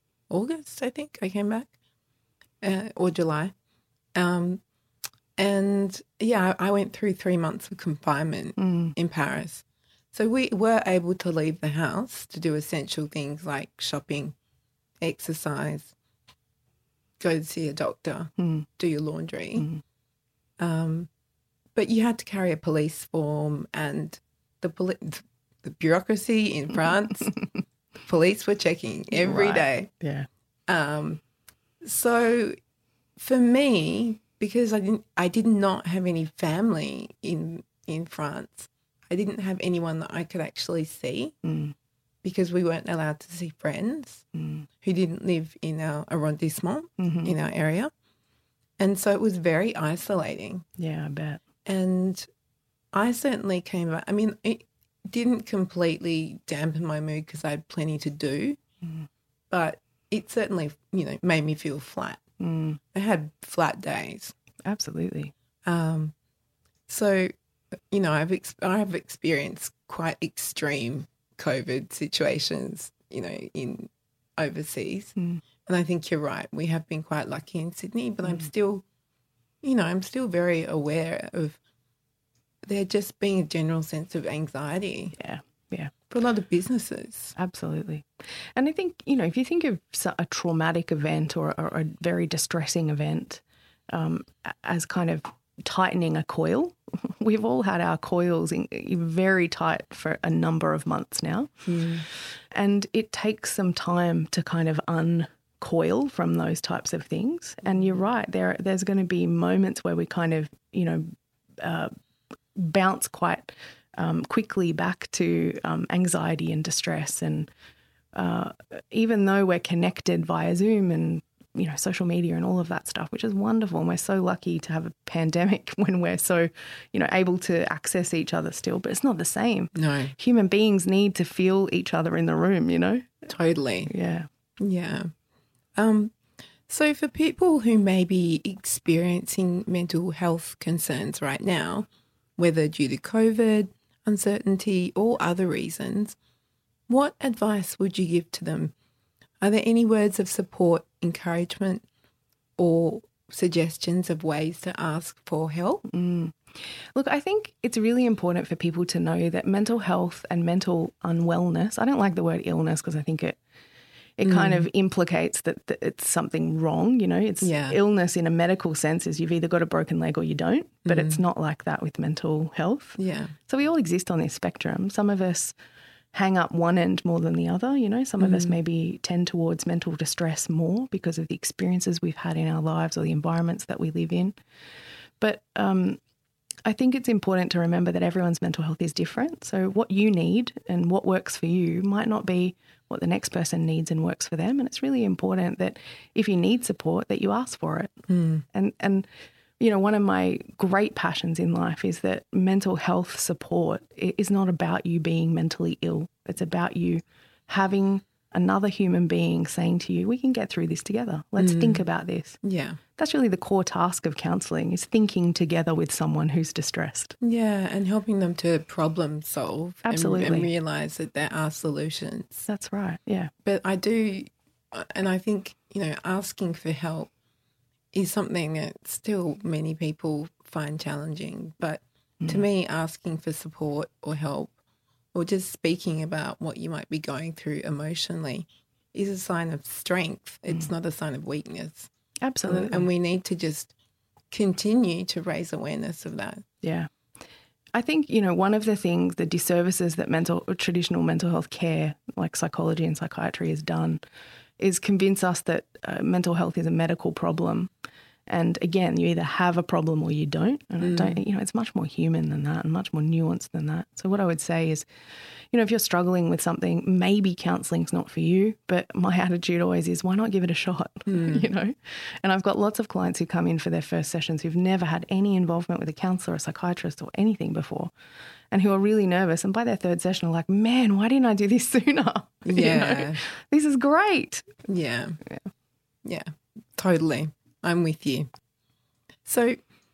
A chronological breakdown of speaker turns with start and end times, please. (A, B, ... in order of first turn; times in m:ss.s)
0:00.3-0:01.7 A
0:02.6-0:03.5 A
0:04.2-0:04.6 A
0:05.4-0:14.4 A
0:08.6-0:09.0 B
0:15.0-0:15.9 A
0:17.2-0:19.7 A
0:18.4-0:18.7 B
0:20.6-0:21.1 A
0:21.8-0:27.3 A
0:28.1-0:29.9 A
0:29.1-0:30.3 B
0:30.7-0:31.2 A
0:31.8-0:32.6 A
0:33.2-0:41.4 A
0:41.4-0:41.8 B
0:42.2-0:44.2 A
0:44.4-0:44.7 B
0:44.8-0:47.9 A
0:47.0-0:47.3 B
0:48.8-0:50.6 A
0:50.8-0:51.4 B
0:51.6-0:52.3 A
0:52.9-0:58.6 A
0:59.5-1:02.2 A
1:02.4-1:02.8 B
1:02.9-1:04.4 A
1:04.6-1:05.3 B
1:05.6-1:06.1 A
1:06.9-1:07.3 A
1:07.9-1:18.8 A
1:15.2-1:15.4 B
1:19.6-1:21.6 A
1:22.6-1:25.2 A
1:25.2-1:25.9 B
1:26.1-1:27.3 A
1:27.4-1:41.5 B
1:41.7-1:42.0 A
1:42.1-1:51.1 B
1:51.6-1:51.9 B
1:52.6-1:57.5 B
1:58.2-2:13.2 B
2:09.8-2:10.1 A
2:13.3-2:13.9 A
2:13.9-2:14.3 B
2:14.6-2:15.1 A
2:15.8-2:16.2 A
2:16.7-2:26.2 A
2:26.9-2:28.7 A
2:29.4-2:31.9 A
2:32.6-2:35.8 A
2:35.9-2:43.4 B
2:44.2-2:55.6 B
2:44.2-2:44.7 A
2:47.4-2:47.8 A
2:50.8-2:51.2 A
2:53.0-2:53.3 A
2:56.1-3:04.4 B
2:58.2-2:58.6 A
3:05.2-3:06.0 B
3:06.6-3:17.9 B
3:18.1-3:18.4 A
3:18.5-3:19.1 B
3:19.6-3:32.4 B
3:31.4-3:31.8 A
3:32.4-3:32.8 A
3:33.0-3:37.2 B
3:37.2-3:42.5 A
3:39.8-3:40.5 B
3:42.5-3:43.3 B
3:43.4-3:47.1 A
3:47.9-3:54.5 A
3:55.1-4:01.9 A
4:02.2-4:02.9 B
4:02.5-4:03.7 A
4:04.3-4:06.4 A
4:06.6-4:06.9 B
4:07.7-4:14.0 B
4:14.6-4:17.7 B
4:18.3-4:24.9 B
4:20.8-4:21.2 A
4:25.5-4:37.9 B
4:31.1-4:31.5 A
4:38.5-4:44.5 B
4:42.4-4:43.2 A
4:44.6-4:45.2 A
4:46.0-4:48.3 A
4:49.2-4:49.6 A